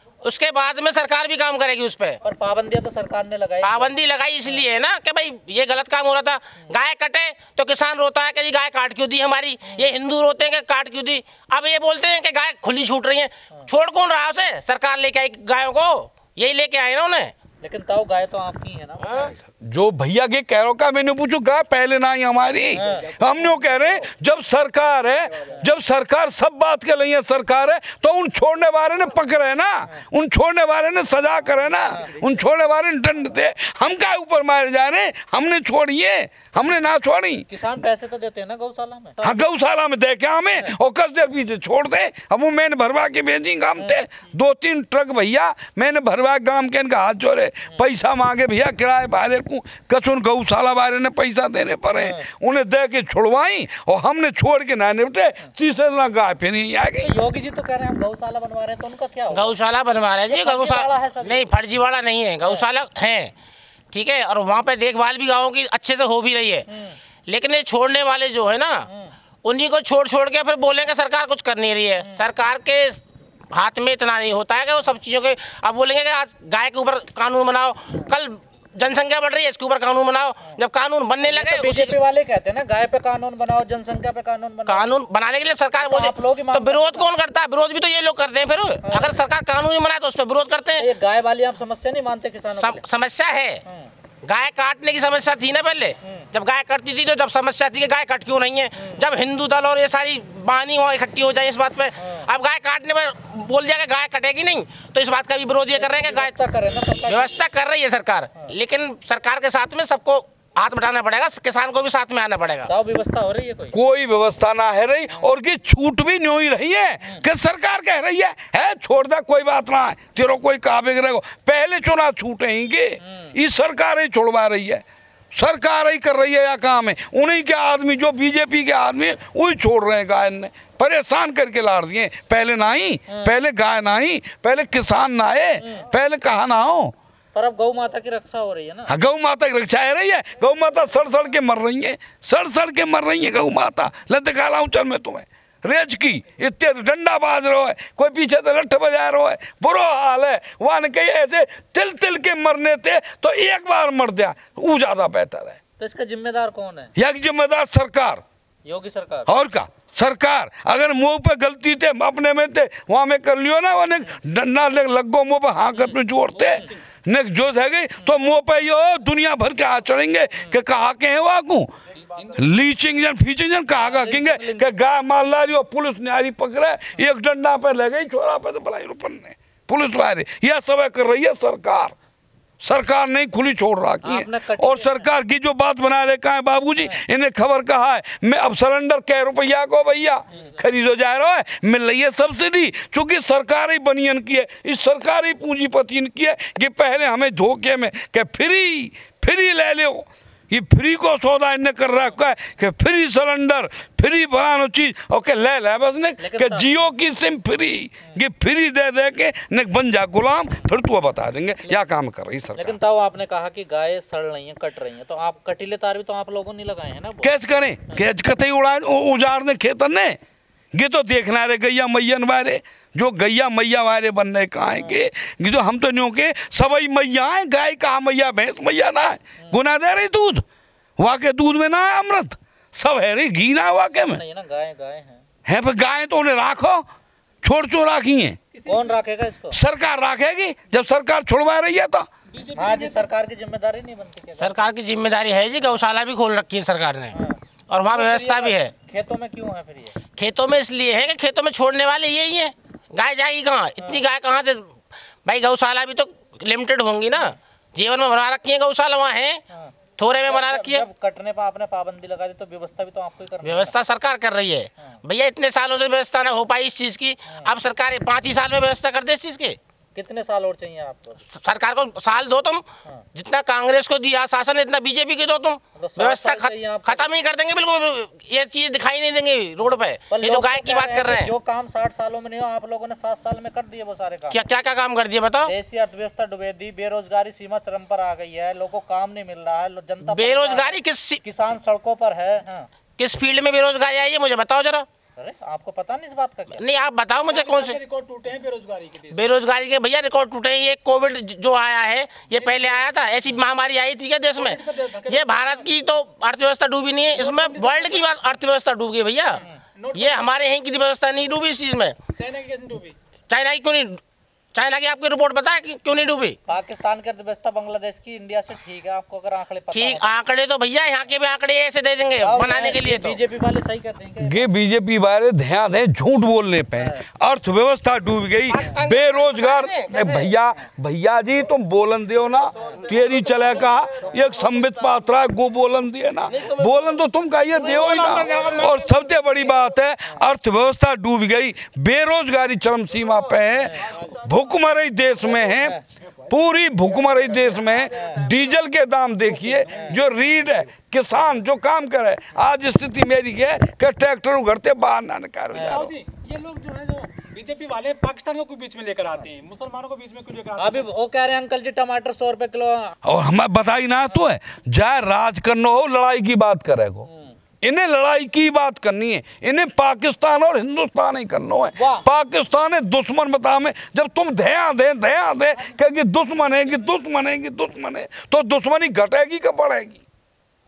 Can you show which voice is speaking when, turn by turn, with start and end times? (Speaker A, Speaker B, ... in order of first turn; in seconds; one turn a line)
Speaker A: 0.2-2.2
Speaker B: 2.2-3.9
Speaker A: 3.6-17.3
Speaker B: 17.6-19.3
Speaker C: 19.1-37.5
Speaker B: 22.7-23.1
Speaker B: 31.8-32.4
Speaker B: 37.5-39.4
Speaker C: 39.2-57.1
Speaker B: 43.8-44.0
Speaker B: 51.9-52.3
Speaker B: 57.0-59.5
Speaker A: 59.3-63.3
Speaker B: 60.3-61.4
Speaker A: 63.9-66.7
Speaker B: 66.7-67.0
Speaker A: 67.3-68.9
Speaker B: 68.9-69.1
Speaker A: 69.4-81.9
Speaker B: 81.2-84.8
Speaker A: 84.7-90.9
Speaker B: 85.8-87.1
Speaker B: 88.8-89.2
Speaker B: 90.8-92.8
Speaker A: 92.5-93.6
Speaker B: 93.7-93.9
Speaker A: 94.2-106.3
Speaker B: 96.0-96.3
Speaker B: 98.7-99.0
Speaker B: 102.0-102.2
Speaker B: 105.7-107.3
Speaker A: 107.0-112.7
Speaker B: 112.7-113.8
Speaker C: 113.7-124.8
Speaker B: 123.0-123.3
Speaker C: 125.3-136.9
Speaker B: 133.1-133.4
Speaker B: 135.6-135.8
Speaker B: 137.3-138.9
Speaker C: 138.9-155.6
Speaker B: 155.8-156.9
Speaker C: 156.9-158.2
Speaker B: 158.6-159.3
Speaker C: 159.3-171.7
Speaker D: 166.4-166.7
Speaker D: 172.1-172.4
Speaker C: 172.3-181.9
Speaker B: 173.8-174.7
Speaker C: 182.6-212.8
Speaker B: 184.0-185.1
Speaker B: 206.2-206.8
Speaker B: 212.5-217.3
Speaker C: 217.2-220.2
Speaker C: 220.7-230.4
Speaker B: 224.7-225.1
Speaker C: 231.0-234.2
Speaker B: 233.9-235.2
Speaker C: 235.4-236.8
Speaker C: 237.4-238.4
Speaker D: 238.5-239.0
Speaker B: 238.7-239.6
Speaker C: 239.5-242.1
Speaker D: 242.3-243.1
Speaker B: 242.6-244.7
Speaker A: 244.4-247.2
Speaker B: 247.1-247.4
Speaker A: 247.7-248.7
Speaker B: 247.9-249.9
Speaker A: 250.2-254.7
Speaker A: 255.2-259.4
Speaker B: 259.5-263.8
Speaker A: 260.0-260.8
Speaker A: 263.4-269.6
Speaker B: 269.9-271.2
Speaker A: 271.3-281.3
Speaker B: 275.8-277.1
Speaker B: 280.1-284.4
Speaker A: 284.3-285.5
Speaker B: 285.4-292.7
Speaker A: 290.0-291.2
Speaker A: 293.0-294.9
Speaker B: 295.2-296.6
Speaker A: 296.6-297.8
Speaker D: 297.2-299.3
Speaker A: 299.1-312.0
Speaker D: 302.3-302.8
Speaker D: 304.3-305.7
Speaker D: 307.1-308.1
Speaker D: 309.8-310.4
Speaker D: 312.1-312.9
Speaker A: 313.3-314.0
Speaker A: 314.5-316.4
Speaker B: 316.5-320.1
Speaker A: 319.7-323.2
Speaker B: 322.2-324.4
Speaker C: 324.2-355.9
Speaker B: 326.8-327.0
Speaker A: 328.5-330.3
Speaker A: 336.3-337.0
Speaker A: 337.6-338.7
Speaker B: 343.6-343.9
Speaker B: 345.5-345.8
Speaker D: 347.0-348.1
Speaker B: 347.8-348.2
Speaker D: 349.2-350.0
Speaker B: 349.7-350.0
Speaker B: 355.5-355.9
Speaker D: 355.6-360.9
Speaker B: 360.6-363.0
Speaker C: 363.0-367.1
Speaker B: 367.1-367.3
Speaker C: 367.6-380.0
Speaker B: 371.8-372.0